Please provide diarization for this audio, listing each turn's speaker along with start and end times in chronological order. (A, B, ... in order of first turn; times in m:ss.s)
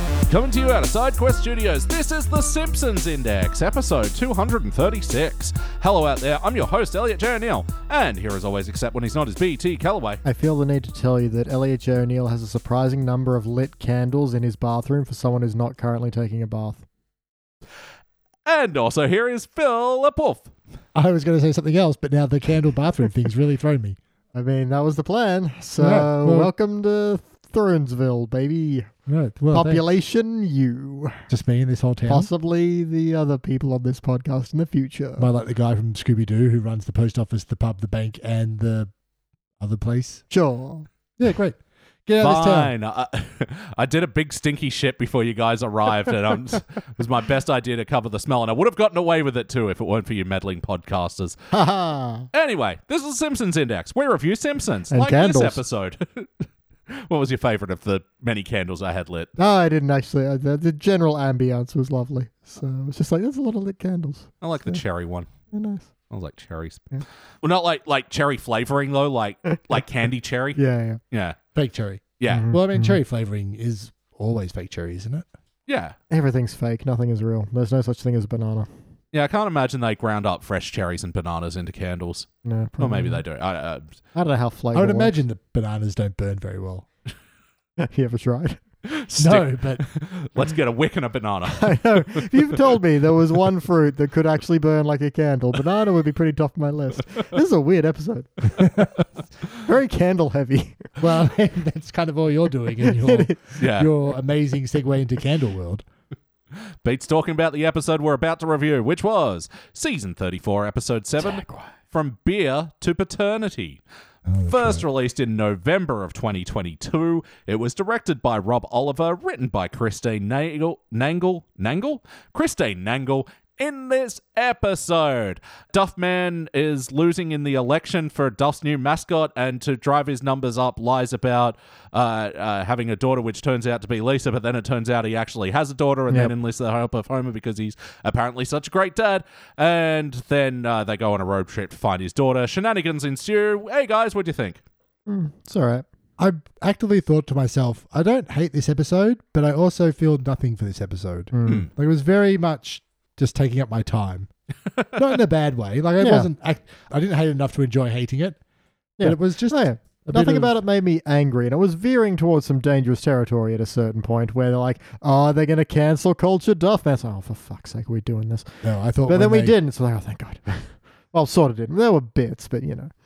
0:00.3-0:10.2 A
0:10.2-0:16.8 B
0:18.5-0:20.5 A
0:21.0-0:24.0 C
0:24.3-0:28.9 B
0:25.8-0:26.5 C
0:29.1-0:29.8 C
0:29.5-0:31.2 B
0:31.3-0:32.3 C
0:32.1-0:35.3 B
0:35.2-0:38.9 C
0:39.6-0:40.2 C
0:40.3-0:40.9 B
0:41.2-0:42.7 C
0:42.2-0:51.4 A
0:51.5-0:52.3 B
0:52.3-0:59.3 A
0:54.9-0:55.6 B
0:59.4-1:04.8 B
1:04.4-1:05.3 A
1:05.5-1:05.9 B
1:06.1-1:06.9 A
1:07.4-1:10.6 A
1:09.5-1:09.8 B
1:10.6-1:11.0 B
1:11.1-1:11.4 A
1:11.6-1:15.3 C
1:12.2-1:12.5 A
1:12.3-1:13.0 B
1:15.7-1:16.0 A
1:16.1-1:18.7 B
1:19.1-1:22.3 A
1:22.4-1:23.2 B
1:22.8-1:23.8 A
1:24.2-1:25.1 B
1:24.7-1:26.9 C
1:27.8-1:28.6 B
1:28.9-1:32.7 A
1:29.2-1:29.8 C
1:31.5-1:38.8 B
1:38.6-1:38.9 C
1:39.5-1:41.0 B
1:41.0-1:45.8 C
1:42.8-1:43.6 B
1:43.6-1:43.9 A
1:46.8-1:53.8 A
1:51.2-1:51.7 B
1:54.3-1:54.8 C
1:54.5-2:24.6 A
2:25.1-2:25.8 B
2:26.2-2:34.3 C
2:31.3-2:31.7 B
2:35.0-2:38.4 C
2:36.0-2:36.3 B
2:39.0-2:52.9 B
2:39.0-2:40.6 C
2:48.6-2:49.5 C